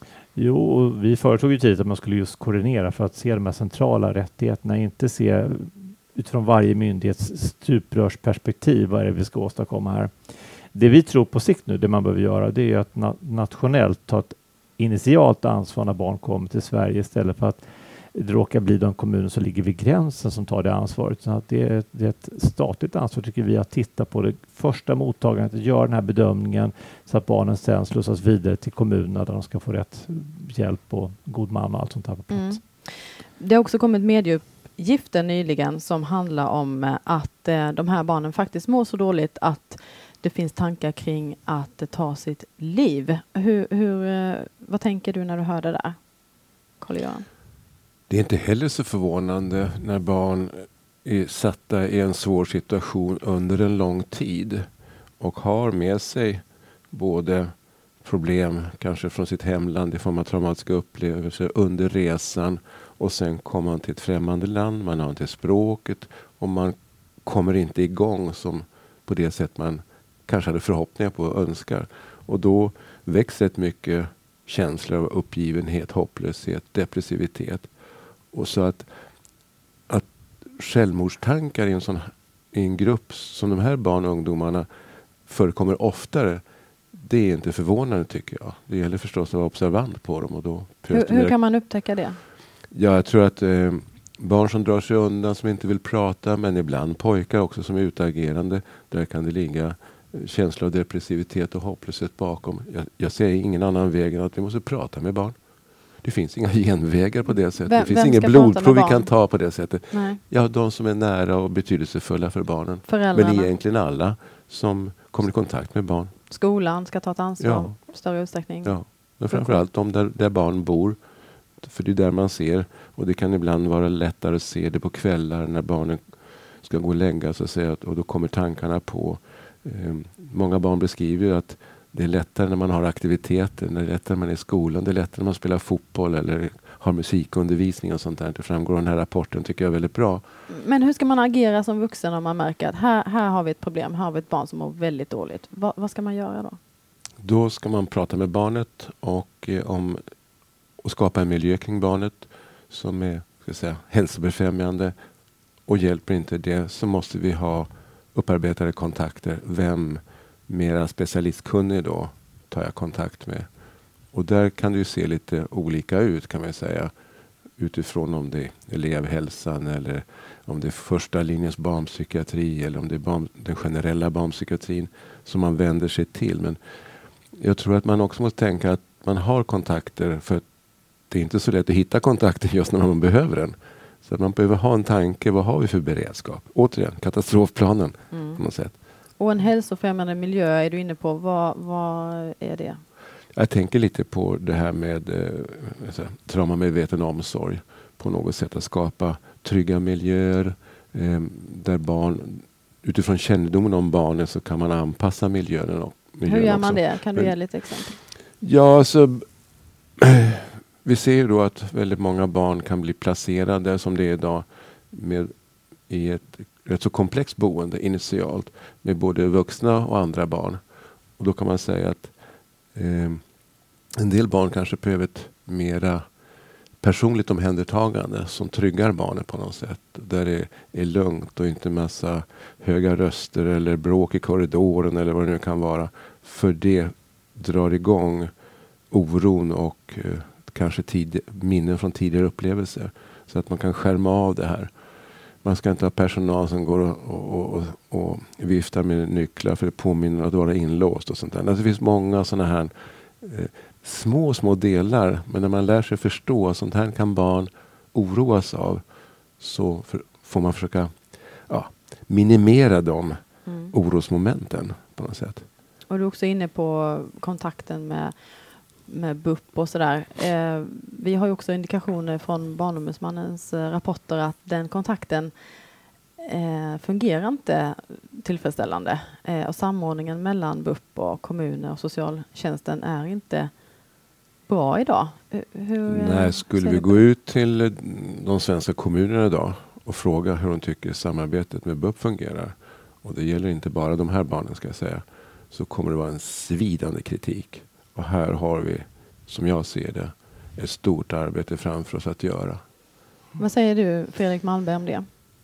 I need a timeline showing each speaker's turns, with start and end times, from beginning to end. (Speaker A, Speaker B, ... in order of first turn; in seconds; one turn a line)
Speaker A: 0.3-32.6
Speaker B: 32.3-46.0
Speaker B: 46.8-47.2
Speaker C: 48.1-54.6
Speaker C: 55.2-77.7
Speaker C: 78.3-78.9
Speaker C: 79.9-84.7
Speaker C: 85.2-86.4
Speaker C: 86.9-91.3
Speaker B: 90.9-92.2
Speaker C: 92.7-105.3
Speaker C: 106.0-116.1
Speaker B: 107.7-109.1
Speaker B: 109.9-110.2
Speaker B: 112.9-113.5
Speaker B: 116.3-119.6
Speaker C: 117.4-117.8
Speaker C: 118.6-121.0
Speaker C: 121.6-140.2
Speaker B: 140.5-146.6
Speaker C: 147.2-150.0
Speaker C: 150.8-154.9
Speaker C: 155.7-163.5
Speaker C: 164.1-166.9
Speaker C: 167.6-176.6
Speaker C: 177.3-180.4
Speaker C: 181.1-188.7
Speaker B: 188.1-188.4
Speaker B: 189.2-192.8
Speaker C: 193.3-207.3
Speaker B: 206.2-208.0
Speaker C: 208.4-209.2
Speaker C: 210.0-215.3
Speaker C: 215.8-220.6
Speaker C: 221.2-222.1
Speaker C: 222.7-223.2
Speaker C: 224.0-226.0
Speaker C: 226.8-238.3
Speaker C: 238.9-244.7
Speaker C: 245.4-258.8
Speaker C: 259.4-265.4
Speaker B: 263.5-263.7
Speaker B: 265.9-268.3
Speaker B: 268.8-275.3
Speaker B: 276.2-283.5
Speaker B: 284.5-287.0
Speaker C: 285.9-302.6
Speaker B: 303.4-305.1